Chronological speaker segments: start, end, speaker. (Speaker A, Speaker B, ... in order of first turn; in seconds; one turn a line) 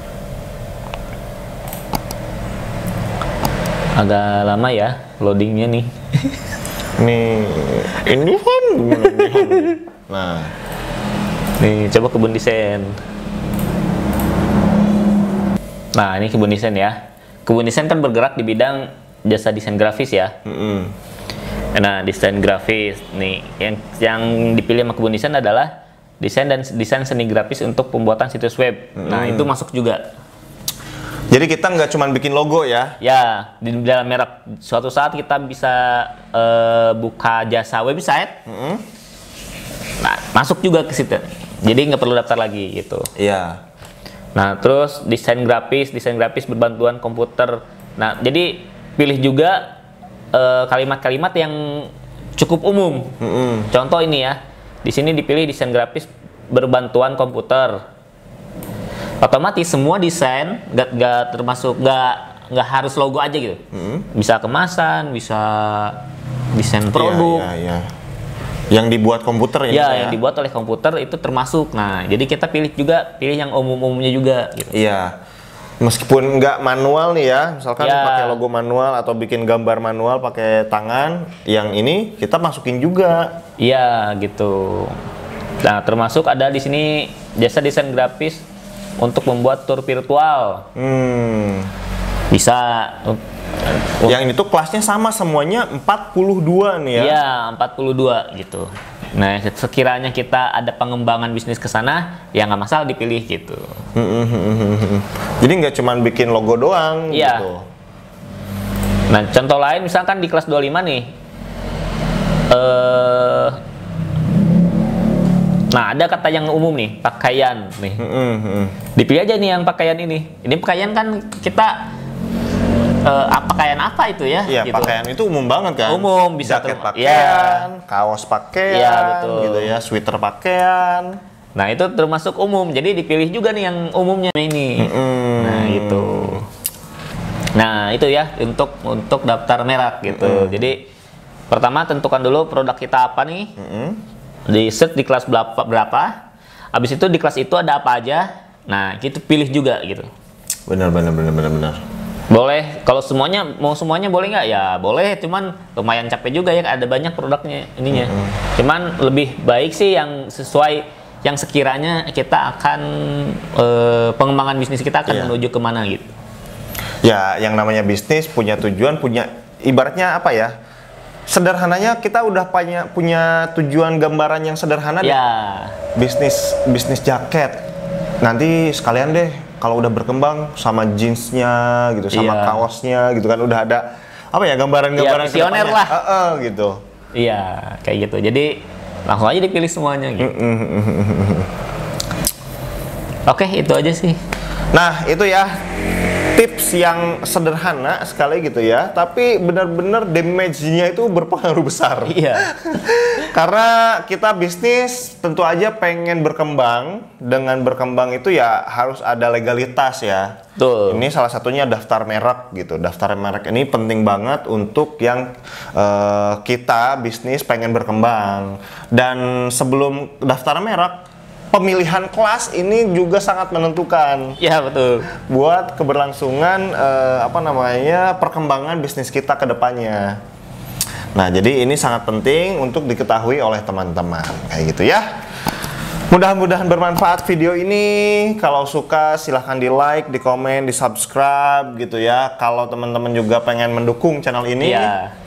Speaker A: 3.9-6.4
Speaker B: 7.0-10.5
Speaker A: 9.0-9.7
Speaker A: 11.6-13.0
Speaker A: 15.9-20.3
Speaker B: 20.4-20.9
Speaker A: 21.8-30.0
Speaker B: 29.0-29.5
Speaker B: 31.3-33.0
Speaker A: 33.0-38.4
Speaker B: 38.5-38.8
Speaker A: 40.0-43.1
Speaker B: 43.2-43.6
Speaker A: 44.3-49.7
Speaker A: 50.3-53.1
Speaker B: 53.2-53.7
Speaker A: 53.7-57.8
Speaker A: 59.2-66.0
Speaker B: 63.7-64.1
Speaker A: 66.5-67.5
Speaker B: 66.9-67.9
Speaker B: 68.7-70.2
Speaker A: 69.7-74.7
Speaker B: 74.7-75.1
Speaker B: 75.8-83.3
Speaker A: 77.8-78.4
Speaker A: 83.6-85.0
Speaker A: 85.6-88.4
Speaker A: 89.0-90.7
Speaker B: 90.8-91.7
Speaker A: 92.3-94.1
Speaker B: 94.0-97.2
Speaker A: 97.0-103.8
Speaker B: 103.9-107.7
Speaker A: 107.1-107.5
Speaker A: 109.1-111.1
Speaker A: 112.5-113.6
Speaker A: 115.7-118.0
Speaker B: 118.0-118.8
Speaker A: 118.9-121.9
Speaker A: 123.0-125.0
Speaker B: 124.5-131.2
Speaker A: 125.8-127.7
Speaker A: 128.7-129.7
Speaker A: 131.6-136.5
Speaker B: 134.8-136.4
Speaker A: 137.5-140.8
Speaker B: 140.1-140.7
Speaker A: 141.5-143.5
Speaker B: 143.6-144.0
Speaker A: 144.5-146.2
Speaker A: 146.7-150.1
Speaker B: 150.7-151.8
Speaker A: 152.3-166.1
Speaker B: 157.9-158.3
Speaker B: 165.1-165.3
Speaker B: 167.0-170.5
Speaker B: 171.3-175.2
Speaker A: 175.0-175.8
Speaker B: 175.9-177.6
Speaker B: 178.2-186.8
Speaker A: 182.1-182.6
Speaker A: 185.0-185.9
Speaker A: 187.1-190.3
Speaker B: 190.2-191.5
Speaker A: 193.2-194.2
Speaker B: 194.7-195.6
Speaker B: 196.3-210.4
Speaker A: 202.1-202.5
Speaker A: 210.6-211.1
Speaker B: 210.9-224.4
Speaker A: 224.4-225.1
Speaker B: 225.1-230.2
Speaker B: 231.1-235.1
Speaker B: 236.1-244.9
Speaker A: 244.6-245.1